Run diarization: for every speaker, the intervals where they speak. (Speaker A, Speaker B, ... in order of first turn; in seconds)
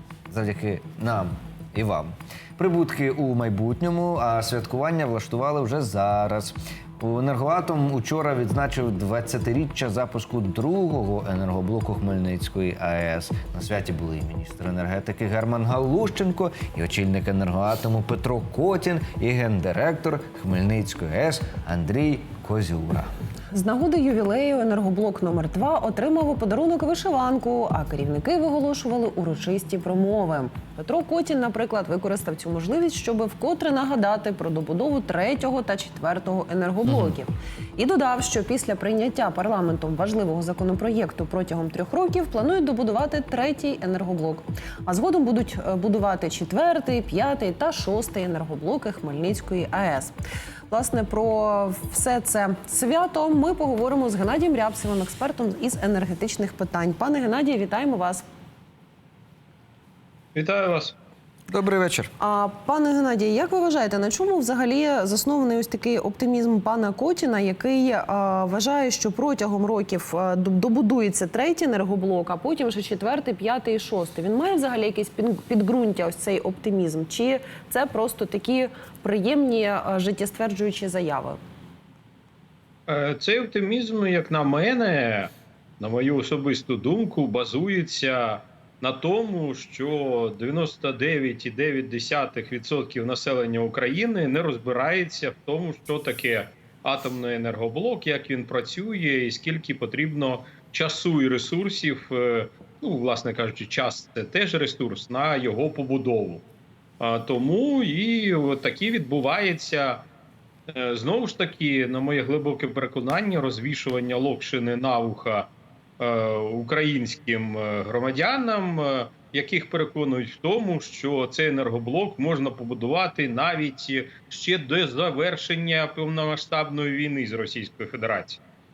Speaker A: 0.3-23.1, 61.5-62.1
Speaker B: 23.5-50.1, 50.7-58.2, 62.2-81.4
Speaker C: 60.3-60.9, 82.9-106.4, 107.0-110.1, 110.7-128.4